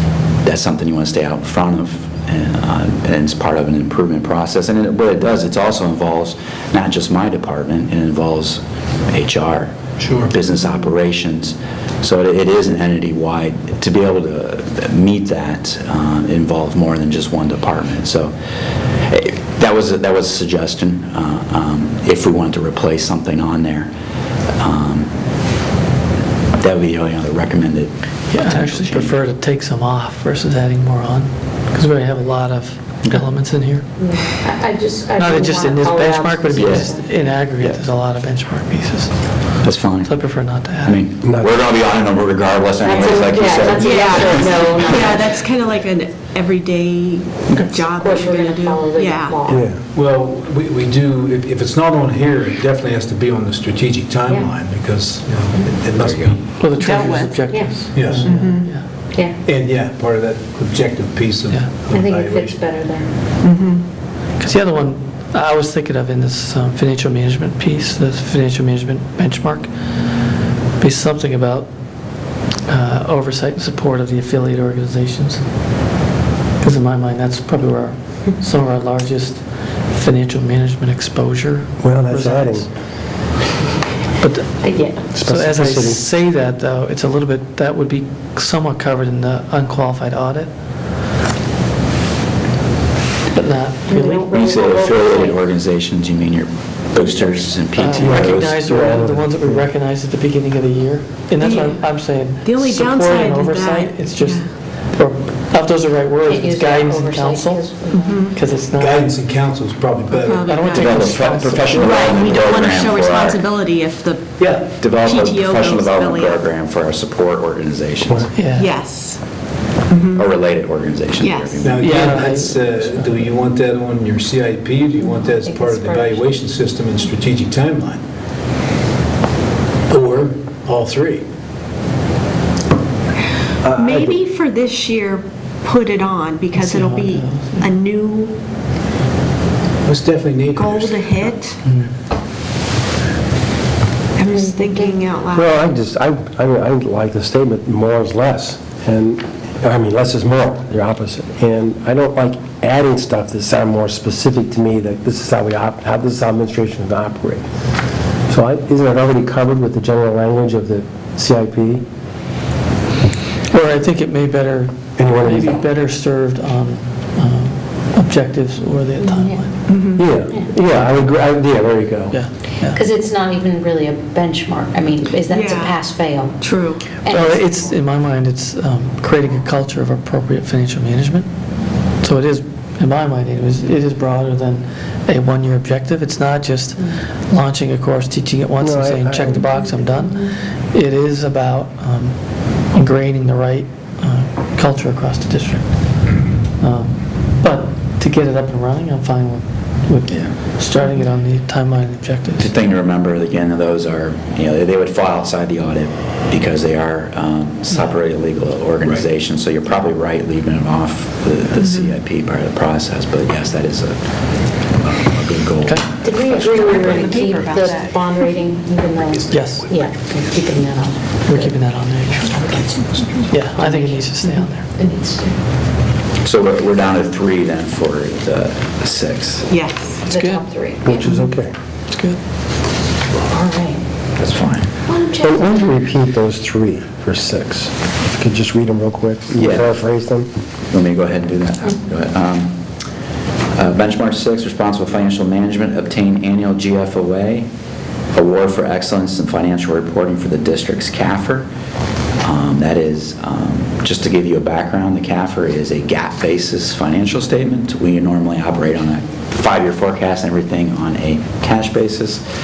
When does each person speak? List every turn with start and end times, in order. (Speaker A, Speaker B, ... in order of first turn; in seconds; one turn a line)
Speaker A: 0.4-18.3
Speaker B: 10.0-10.3
Speaker A: 19.1-23.9
Speaker A: 24.6-25.1
Speaker A: 26.6-29.2
Speaker C: 28.3-33.9
Speaker D: 34.0-37.1
Speaker C: 35.1-41.0
Speaker A: 36.5-36.9
Speaker A: 39.6-40.1
Speaker A: 40.8-45.1
Speaker E: 41.2-41.5
Speaker D: 42.8-45.3
Speaker F: 43.7-49.4
Speaker A: 47.5-47.8
Speaker D: 47.9-49.6
Speaker E: 49.5-49.8
Speaker B: 49.9-56.5
Speaker A: 56.0-56.4
Speaker C: 56.6-58.9
Speaker F: 56.7-57.5
Speaker D: 57.5-58.5
Speaker B: 57.9-58.8
Speaker F: 58.2-58.7
Speaker D: 59.1-59.4
Speaker B: 59.4-62.6
Speaker C: 61.5-61.8
Speaker D: 61.9-63.1
Speaker F: 63.4-63.8
Speaker C: 64.4-69.7
Speaker C: 70.8-71.7
Speaker C: 72.7-75.4
Speaker C: 76.6-82.7
Speaker E: 81.8-82.7
Speaker C: 84.2-90.5
Speaker D: 84.6-85.1
Speaker E: 85.1-86.0
Speaker C: 93.3-94.3
Speaker D: 93.9-95.4
Speaker A: 94.3-98.7
Speaker C: 97.8-107.7
Speaker E: 98.0-99.6
Speaker F: 101.4-104.5
Speaker D: 106.2-108.3
Speaker F: 107.9-108.4
Speaker C: 108.3-109.1
Speaker B: 108.7-110.9
Speaker F: 110.1-116.4
Speaker C: 110.4-112.5
Speaker A: 110.7-113.4
Speaker A: 114.8-118.3
Speaker C: 118.3-118.7
Speaker F: 118.5-119.2
Speaker F: 119.9-120.3
Speaker A: 120.1-121.8
Speaker F: 121.2-121.7
Speaker B: 121.6-128.0
Speaker C: 121.8-123.3
Speaker D: 125.0-126.5
Speaker B: 129.9-131.2
Speaker E: 133.6-134.2
Speaker F: 133.7-138.3
Speaker C: 136.5-137.7
Speaker B: 139.8-141.3
Speaker F: 140.5-141.6
Speaker C: 141.6-141.9
Speaker F: 144.2-145.5
Speaker D: 144.3-145.0
Speaker E: 145.3-157.4
Speaker E: 158.3-161.8
Speaker C: 163.5-169.7
Speaker E: 165.0-165.6
Speaker D: 169.0-169.4
Speaker F: 169.7-170.0
Speaker E: 169.9-172.2
Speaker C: 170.7-171.1
Speaker C: 172.1-172.8
Speaker D: 172.6-176.4
Speaker F: 175.3-175.8
Speaker F: 176.4-176.9
Speaker D: 177.0-177.7
Speaker C: 177.0-181.3
Speaker C: 182.0-202.5
Speaker E: 188.6-189.5
Speaker A: 200.1-200.3
Speaker A: 202.4-214.1
Speaker F: 211.6-211.9
Speaker A: 214.7-217.4
Speaker D: 216.0-221.6
Speaker F: 216.4-218.3
Speaker B: 219.2-219.7
Speaker C: 219.3-219.7
Speaker C: 221.2-222.3
Speaker D: 222.3-222.6
Speaker B: 222.3-223.3
Speaker C: 223.3-224.7
Speaker D: 223.5-224.0
Speaker D: 224.7-225.3
Speaker A: 226.2-229.5
Speaker F: 229.5-230.0
Speaker D: 230.1-231.1
Speaker C: 230.1-230.4
Speaker E: 230.8-231.5
Speaker C: 231.0-231.4
Speaker C: 231.9-232.2
Speaker D: 233.2-233.8
Speaker A: 234.2-234.7
Speaker D: 234.9-235.8
Speaker E: 235.2-240.3
Speaker A: 239.3-239.8
Speaker A: 240.7-242.6
Speaker A: 243.5-247.4
Speaker A: 248.1-251.5
Speaker A: 252.2-262.2